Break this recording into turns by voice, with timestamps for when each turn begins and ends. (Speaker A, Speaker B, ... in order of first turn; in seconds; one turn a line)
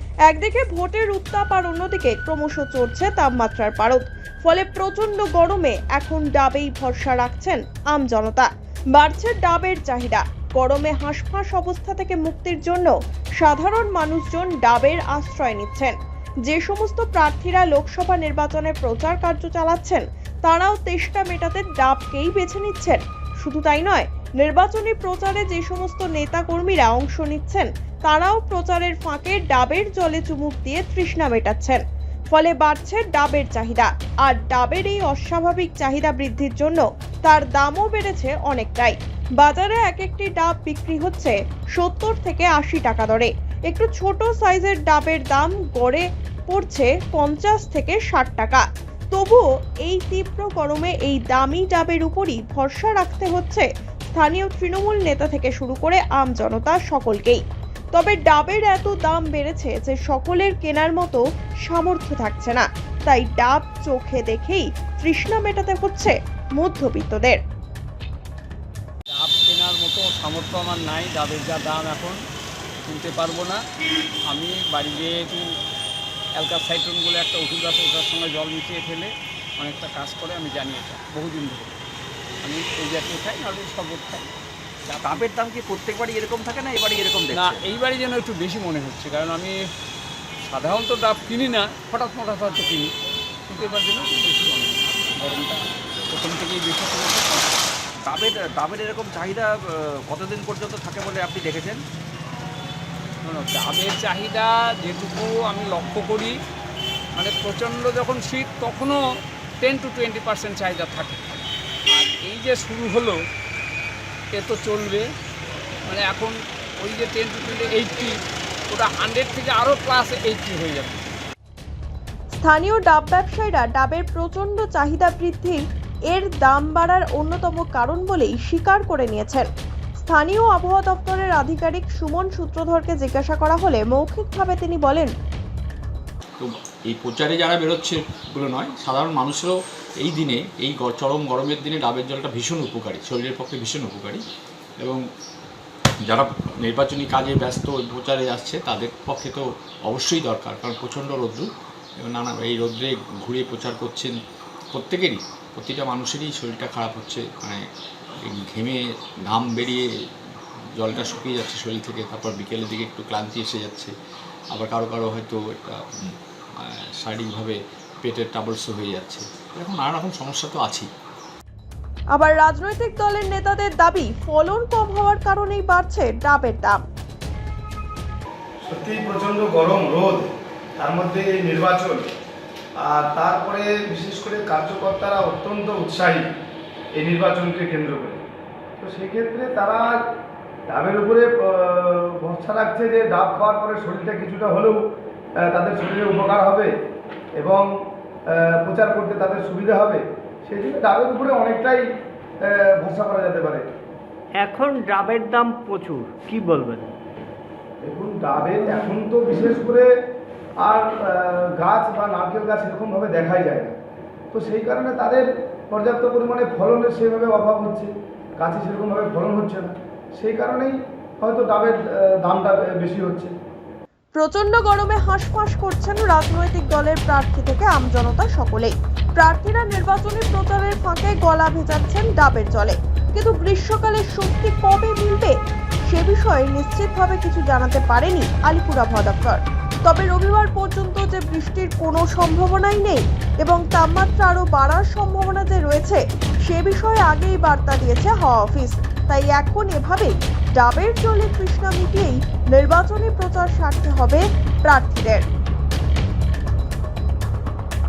Speaker A: 0.3-57.4
Speaker A: 57.9-67.4
Speaker B: 69.1-72.2
Speaker B: 72.8-73.6
Speaker B: 74.3-75.4
Speaker B: 76.4-81.7
Speaker B: 82.4-84.3
Speaker C: 85.0-87.6
Speaker B: 87.2-89.6
Speaker B: 90.5-92.9
Speaker B: 93.5-97.5
Speaker C: 98.0-101.8
Speaker B: 103.2-106.3
Speaker B: 107.2-109.0
Speaker B: 109.6-111.3
Speaker B: 111.9-113.2
Speaker B: 114.3-115.0
Speaker B: 115.9-118.1
Speaker B: 118.7-121.0
Speaker A: 122.3-129.5
Speaker A: 130.0-135.1
Speaker D: 136.4-144.2
Speaker D: 146.1-151.5
Speaker D: 152.0-154.1
Speaker D: 154.7-157.6
Speaker D: 158.2-159.9
Speaker D: 160.8-163.9
Speaker D: 164.5-170.9
Speaker A: 172.2-176.8
Speaker E: 178.6-180.2
Speaker E: 180.8-182.1
Speaker E: 182.8-186.3
Speaker E: 187.0-188.2
Speaker E: 188.8-189.9
Speaker E: 190.7-194.8
Speaker E: 195.5-196.7
Speaker E: 197.4-197.7
Speaker E: 198.3-201.8
Speaker E: 202.4-203.6
Speaker F: 204.4-206.9
Speaker E: 207.8-209.9
Speaker E: 210.6-213.7
Speaker E: 214.3-223.3
Speaker A: 224.2-235.3
Speaker A: 235.9-255.3